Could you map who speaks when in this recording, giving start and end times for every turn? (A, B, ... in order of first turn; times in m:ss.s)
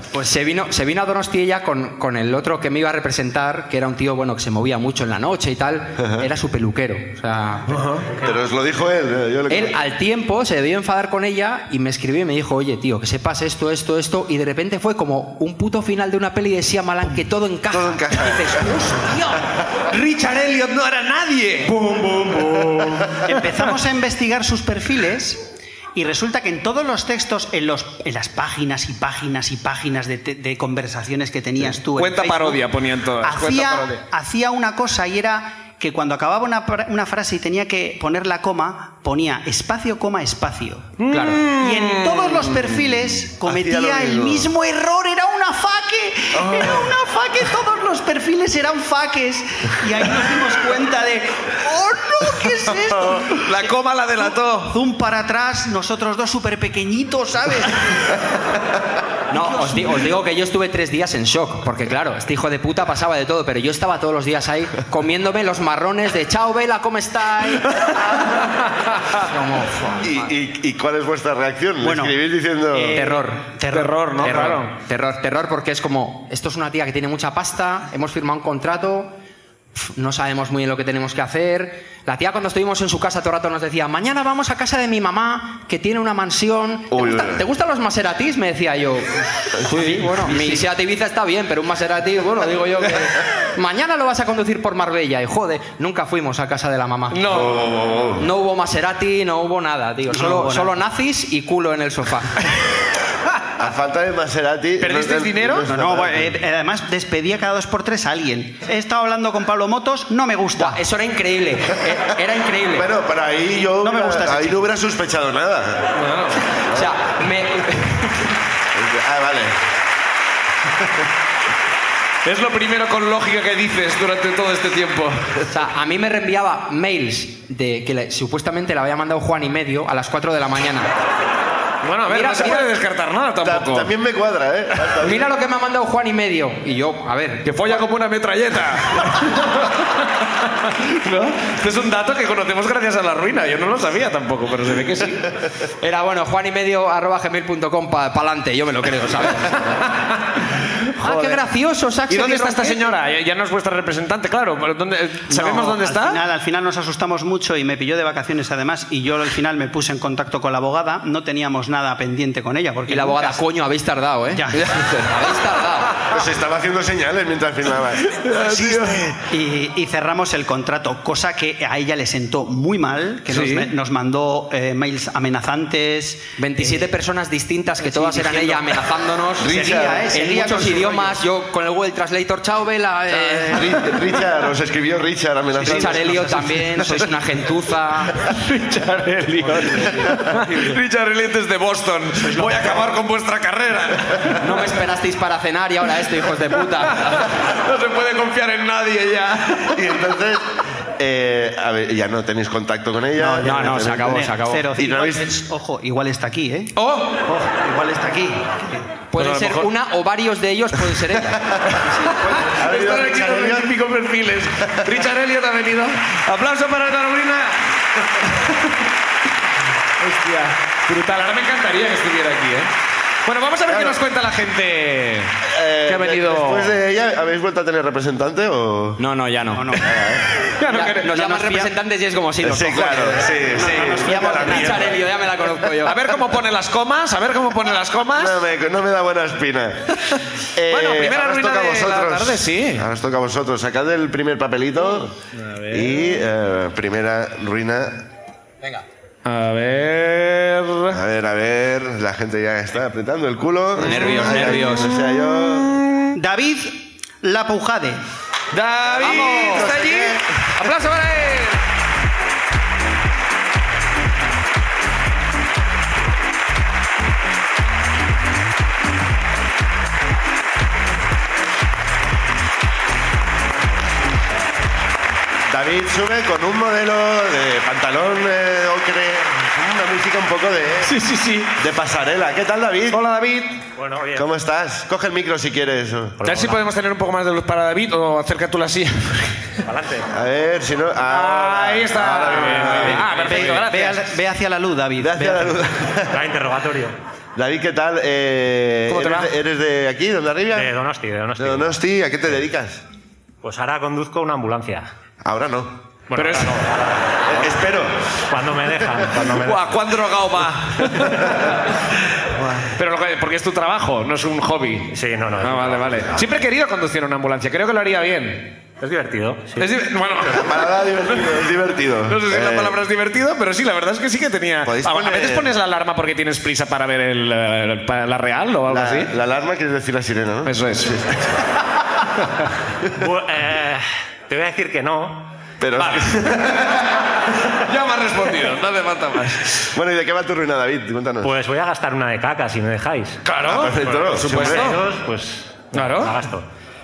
0:00.2-0:07.8 A
0:06.0-0:06.3 B
0:07.7-0:08.0 C
0:08.2-0:09.8 B
0:09.5-0:19.4 A
0:17.7-0:19.0 B
0:19.9-0:23.6 C
0:23.3-0:41.0 D
0:31.7-0:34.0 C
0:41.0-0:42.6 C
0:41.1-0:41.4 A
0:41.5-0:58.2 D
0:43.4-0:44.5 B
0:46.3-0:46.8 B
0:53.4-0:54.8 C
0:59.3-1:08.1 A
0:59.3-1:00.1 D
1:08.1-1:09.0 C
1:09.2-1:10.3 A
1:10.0-1:13.0 B
1:11.8-1:12.2 D
1:12.7-1:14.5 D
1:12.9-1:13.5 A
1:13.7-1:14.7 C
1:14.2-1:19.1 A
1:19.8-1:37.2 A
1:26.9-1:27.5 B
1:37.1-1:37.6 C
1:37.3-1:38.2 B
1:38.2-1:42.4 A
1:40.1-1:40.7 D
1:43.6-1:46.4 B
1:44.8-1:45.7 C
1:45.7-1:50.8 D
1:50.6-1:52.9 A
1:52.7-1:56.0 B
1:53.8-1:54.7 D
1:56.0-1:56.5 C
1:56.7-1:58.2 A
1:58.7-1:59.6 B
2:02.2-2:05.4 C
2:05.5-2:10.9 A
2:11.8-2:13.9 C
2:12.1-2:12.7 A
2:13.4-2:15.2 B
2:15.0-2:17.8 A
2:17.4-2:25.3 C
2:25.8-2:29.8 A
2:29.7-2:30.1 C
2:30.9-2:31.4 C
2:31.0-2:32.9 A
2:32.1-2:36.2 C
2:35.3-2:35.8 A
2:35.8-2:43.4 D
2:42.9-2:46.0 A
2:44.3-2:44.7 D
2:46.1-2:49.1 B
2:48.1-2:49.1 C
2:49.3-2:56.9 D
2:53.3-2:53.7 C
2:56.4-3:03.8 A
2:57.8-3:01.2 D
2:59.4-3:00.1 B
3:03.1-3:03.7 D
3:03.5-3:06.3 B
3:05.6-3:06.9 D
3:05.6-3:08.2 A
3:08.2-3:14.7 C
3:09.8-3:10.4 B
3:12.2-3:13.0 D
3:14.4-3:17.4 A
3:16.7-3:19.8 C
3:19.7-3:20.4 B
3:21.0-3:25.4 B
3:23.2-3:26.7 D
3:23.4-3:24.6 A
3:26.8-3:27.2 C
3:27.3-3:28.9 D
3:29.1-3:31.4 A
3:29.2-3:29.7 C
3:32.2-3:37.6 C
3:32.5-3:33.7 B
3:38.2-3:38.7 C
3:40.0-3:42.7 C
3:43.2-3:45.3 C
3:43.7-3:44.0 B
3:45.5-3:49.0 B
3:45.9-3:46.7 C
3:49.0-3:49.8 A
3:49.5-3:49.9 D
3:49.8-3:50.3 B
3:50.4-3:51.1 C
3:50.7-3:53.4 A
3:50.8-3:51.7 D
3:52.4-3:54.9 B
3:53.4-3:55.0 D
3:54.0-3:56.0 A
3:55.7-3:58.4 C
3:58.2-4:05.1 B
4:00.7-4:02.9 C
4:05.4-4:06.0 C
4:05.7-4:08.1 B
4:09.2-4:11.0 C
4:10.9-4:15.8 B
4:13.8-4:14.9 A
4:13.8-4:16.2 C
4:16.1-4:18.0 D
4:18.5-4:21.6 C
4:18.8-4:20.2 B
4:19.0-4:19.7 A
4:35.5-4:41.0 B
4:40.8-4:41.5 C
4:41.6-4:43.0 B
4:42.9-4:43.6 C
4:43.8-4:44.3 E
4:44.2-4:46.2 B
4:46.2-4:46.6 E
4:46.2-4:49.6 C
4:49.6-4:50.1 E
4:50.1-4:53.6 B
4:51.0-4:54.1 C
4:52.6-4:55.6 D
4:55.0-4:56.2 B
4:56.1-4:57.0 E
4:57.4-5:00.7 B
4:58.9-4:59.3 C
5:00.5-5:01.8 E
5:01.4-5:02.8 B
5:03.4-5:04.9 E
5:05.2-5:05.8 B
5:06.1-5:07.4 E
5:06.2-5:06.6 C
5:07.3-5:08.2 B
5:08.3-5:10.0 E
5:09.3-5:11.7 C
5:12.4-5:12.7 B
5:12.7-5:18.5 C
5:14.9-5:16.3 E
5:18.8-5:19.7 E
5:19.6-5:20.5 C
5:20.2-5:22.8 B
5:22.1-5:29.1 C
5:24.6-5:25.5 B
5:28.7-5:31.3 B
5:30.4-5:31.1 C
5:32.9-5:35.3 E
5:35.6-5:37.1 B
5:35.8-5:36.1 C
5:37.5-5:39.7 C
5:39.7-5:41.3 B
5:41.2-5:46.5 E
5:43.2-5:44.8 C
5:43.4-5:44.8 B
5:45.7-5:46.2 C